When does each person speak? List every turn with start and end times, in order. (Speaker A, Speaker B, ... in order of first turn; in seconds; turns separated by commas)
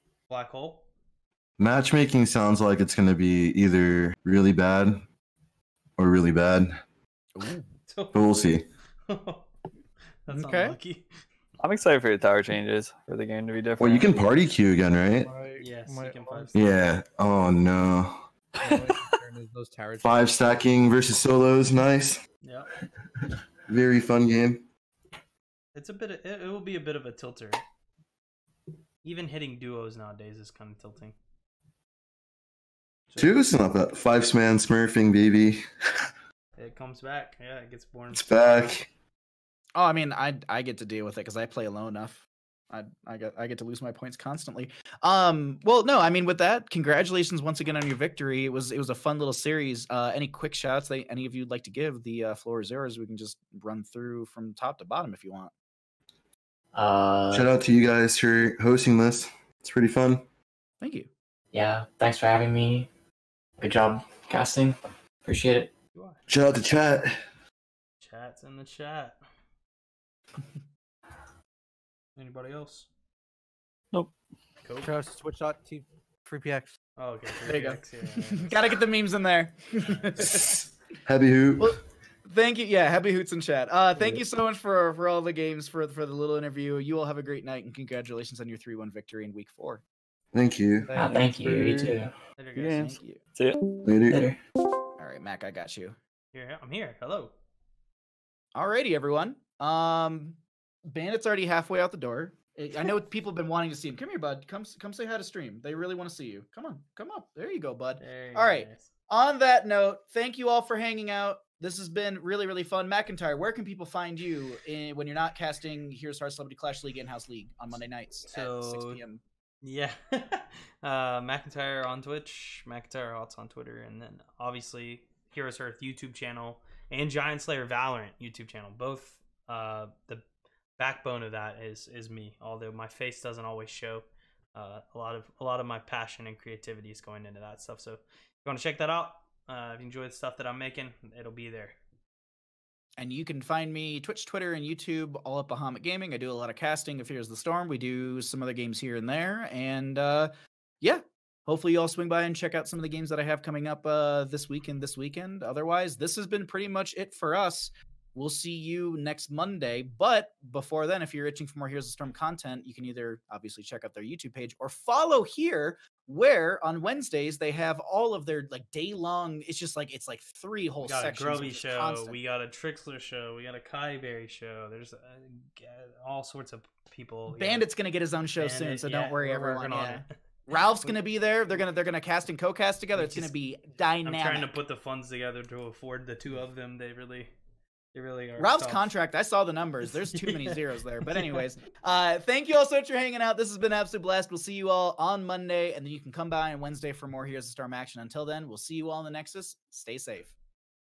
Speaker A: 0.3-0.9, Speaker B: 1.6-5.0, Speaker B: 6.0-6.8, Speaker C: 7.3-7.7, Speaker A: 7.9-8.4, Speaker B: 8.1-8.6, Speaker A: 9.1-9.5, Speaker A: 10.2-11.1, Speaker C: 10.3-10.8, Speaker D: 11.6-14.1, Speaker B: 13.8-15.3, Speaker E: 15.2-16.5, Speaker A: 15.6-16.7, Speaker B: 16.5-18.2, Speaker E: 18.6-20.6, Speaker B: 20.0-22.2, Speaker A: 22.4-22.7, Speaker B: 23.7-24.6, Speaker A: 25.7-27.6, Speaker A: 29.0-31.1, Speaker A: 33.1-33.4, Speaker B: 33.2-35.6, Speaker A: 36.5-38.7, Speaker B: 38.1-38.9, Speaker C: 39.8-55.5, Speaker F: 56.7-57.5, Speaker B: 57.3-60.2, Speaker C: 60.8-61.1, Speaker F: 61.5-62.9, Speaker F: 63.6-65.7, Speaker A: 65.9-66.2, Speaker B: 66.3-67.2, Speaker A: 68.0-69.2, Speaker A: 72.2-72.9, Speaker A: 74.6-74.9, Speaker E: 74.8-76.8, Speaker A: 77.0-78.5, Speaker C: 77.4-80.5, Speaker A: 79.8-80.5, Speaker B: 80.2-81.8, Speaker C: 81.6-89.8, Speaker B: 90.3-90.9, Speaker F: 90.9-92.1, Speaker D: 91.0-92.0, Speaker A: 92.4-92.9, Speaker C: 92.5-93.2, Speaker D: 92.5-93.6, Speaker B: 93.8-94.3, Speaker F: 94.1-94.4, Speaker C: 95.0-95.9, Speaker A: 96.3-97.3, Speaker C: 98.5-119.2, Speaker A: 108.0-108.9, Speaker A: 118.3-119.0, Speaker A: 119.6-130.2, Speaker A: 130.8-141.8, Speaker C: 143.0-172.2, Speaker A: 170.8-177.7, Speaker C: 177.3-184.5, Speaker A: 178.4-180.9, Speaker A: 182.9-183.3, Speaker A: 184.0-187.3, Speaker A: 187.9-188.9, Speaker C: 188.4-200.3, Speaker A: 189.8-191.4